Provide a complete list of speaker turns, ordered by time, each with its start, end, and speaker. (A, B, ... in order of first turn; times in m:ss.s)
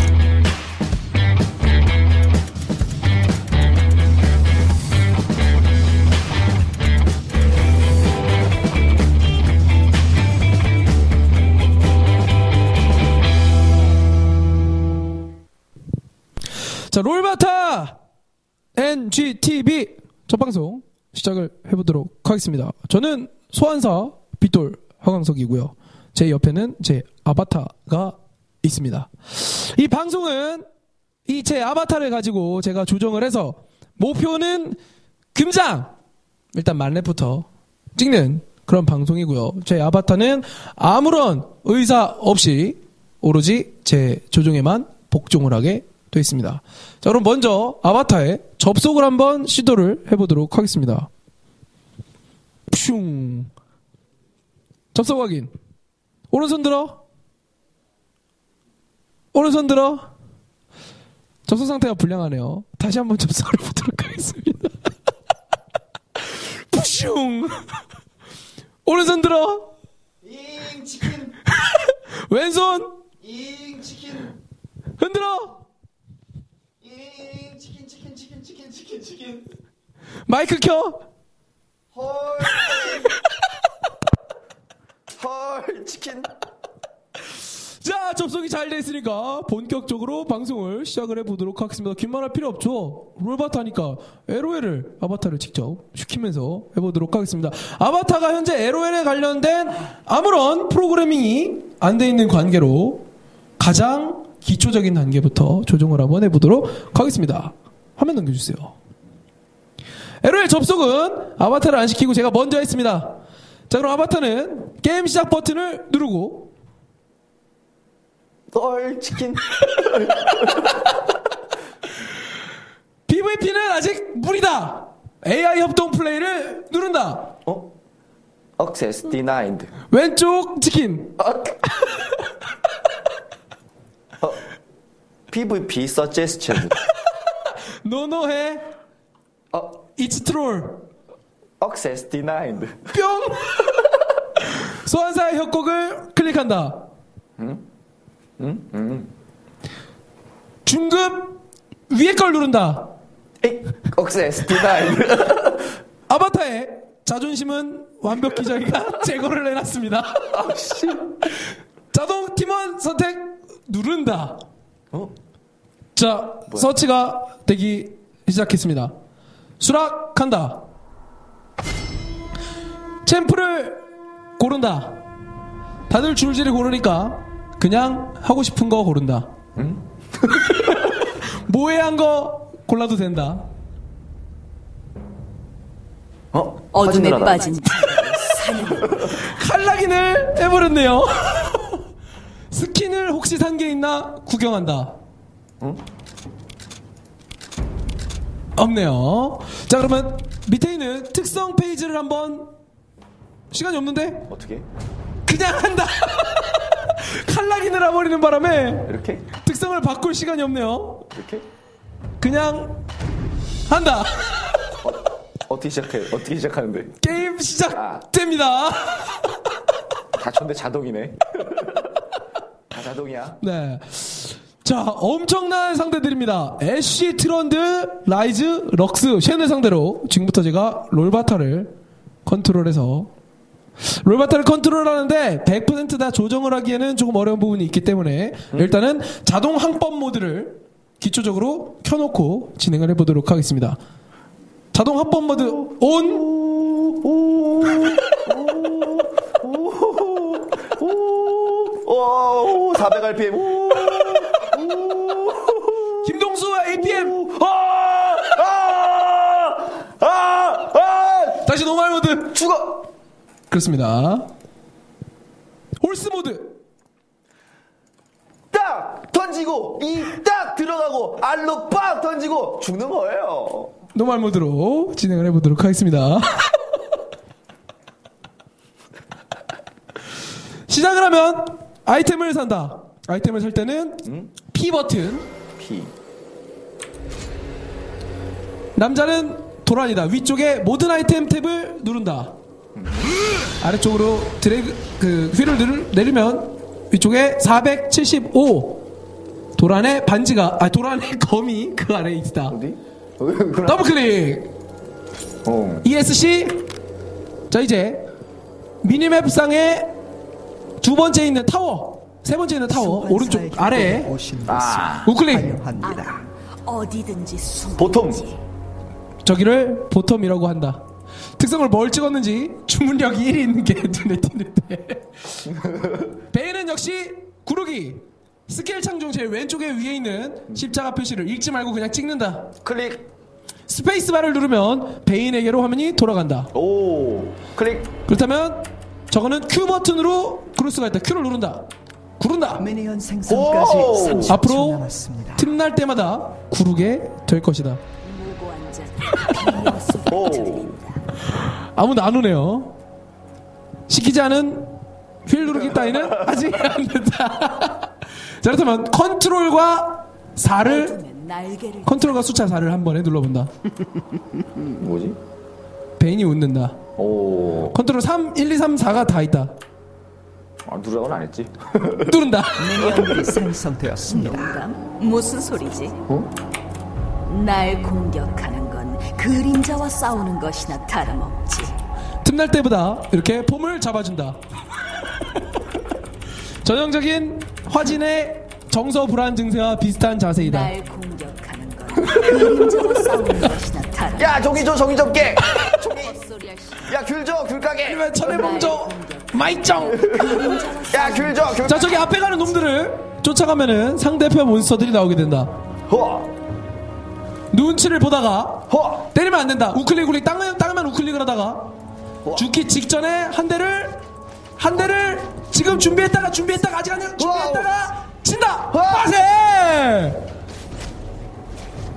0:16.9-0:18.0 A
0:18.8-0:30.6 A
0:31.3-0:34.8 A
0:35.3-0:35.9 A
0:36.5-0:51.1 A
0:52.7-0:53.5 A
0:54.9-0:55.5 A
0:56.3-0:57.0 A
0:59.3-1:00.1 A
1:01.5-1:04.8 A
1:06.2-1:07.8 A
1:08.8-1:09.7 A
1:10.2-1:11.4 B
1:11.5-1:13.0 A
1:13.2-1:14.4 B
1:15.0-1:15.6 A
1:16.8-1:19.5 B
1:20.3-1:21.0 A
1:21.9-1:23.1 B
1:25.1-1:26.3 B
1:27.8-1:43.0 A
1:43.6-1:48.8 A
1:50.2-1:53.2 A
1:53.7-1:56.5 A
1:58.5-2:00.7 B
2:03.1-2:07.3 A
2:07.5-2:07.7 B
2:08.6-2:09.7 B
2:09.9-2:11.2 A
2:11.2-2:11.8 B
2:15.3-2:16.8 B
2:17.8-2:18.7 A
2:19.5-2:19.8 B
2:20.0-2:20.9 A
2:21.6-2:22.9 B
2:22.9-2:23.7 A
2:24.5-2:26.9 A
2:27.4-2:27.6 B
2:28.4-2:29.1 B
2:30.6-2:32.9 A
2:33.4-2:35.7 B
2:36.1-2:40.4 A
2:40.3-2:41.1 B
2:41.3-2:44.4 A
2:46.0-2:48.9 A
2:49.6-2:50.6 A
2:53.0-2:53.8 A
2:54.4-2:55.0 A
2:55.9-2:59.3 A
2:59.6-3:00.5 B
3:00.4-3:03.5 A
3:06.3-3:08.0 B
3:06.7-3:09.1 C
3:08.5-3:09.1 B
3:09.0-3:11.8 A
3:12.5-3:15.0 A
3:18.6-3:22.5 A
3:23.5-3:24.3 A
3:24.3-3:24.7 B
3:25.3-3:31.1 A
3:28.9-3:29.3 B
3:31.1-3:31.5 B
3:32.2-3:32.8 A
3:33.7-3:34.7 A
3:34.8-3:37.0 B
3:37.0-3:39.3 A
3:37.8-3:38.0 B
3:40.2-3:41.9 B
3:42.7-3:43.4 B
3:43.4-3:51.7 A
3:52.2-3:53.1 A
3:53.8-4:03.8 A
4:04.7-4:06.3 A
4:06.0-4:16.1 B
4:16.0-4:17.2 A
4:16.8-4:21.5 B
4:21.4-4:22.4 A
4:22.3-4:22.9 B
4:23.5-4:24.3 A
4:25.8-4:26.6 A
4:28.5-4:33.7 B
4:33.9-4:36.5 A
4:40.7-4:45.3 A
4:44.0-4:44.3 B
4:45.6-4:45.9 B
4:48.8-4:52.3 A
4:52.8-4:53.1 B
4:53.6-4:58.8 A
4:59.6-5:02.6 A
5:02.5-5:03.9 B
5:03.7-5:04.5 A
5:05.4-5:05.9 B
5:05.8-5:06.6 A
5:07.5-5:08.1 A
5:08.8-5:09.9 A
5:10.8-5:14.1 A
5:12.7-5:16.2 D
5:14.5-5:15.1 B
5:15.0-5:15.6 A
5:15.8-5:18.4 C
5:17.8-5:18.2 B
5:19.2-5:20.8 A
5:21.4-5:25.1 A
5:25.5-5:26.1 B
5:26.3-5:32.5 A
5:32.6-5:33.1 B
5:33.7-5:36.5 A
5:36.5-5:37.9 B
5:38.1-5:41.7 A
5:42.2-5:42.7 A
5:42.6-5:45.5 D
5:43.3-5:44.4 B
5:44.3-5:44.8 A
5:45.4-5:47.8 A
5:48.0-5:51.0 C
5:50.1-5:50.8 B
5:51.3-5:52.7 A
5:53.9-5:54.7 A
5:55.3-6:01.0 A
5:55.4-5:56.5 B
6:00.6-6:02.4 C
6:01.8-6:03.5 A
6:04.8-6:05.2 B
6:06.0-6:06.8 A
6:07.0-6:07.8 B
6:07.7-6:09.6 A
6:10.7-6:12.2 B
6:12.1-6:13.2 A
6:12.6-6:14.6 D
6:14.1-6:16.0 C
6:17.3-6:21.8 C
6:22.2-6:24.4 A
6:26.6-6:30.7 A
6:30.4-6:34.4 C
6:32.1-6:33.1 B
6:34.2-6:36.2 B
6:35.6-6:37.0 C
6:36.8-6:38.1 B
6:37.8-6:40.2 A
6:38.2-6:42.0 C
6:40.0-6:42.1 B
6:41.6-6:45.6 A
6:45.9-6:46.3 B
6:47.5-6:51.7 A
6:48.7-6:49.1 B
6:52.2-6:52.5 B
6:52.4-6:54.0 A
6:54.6-7:00.2 A
6:57.2-6:57.7 B
6:58.7-6:59.1 B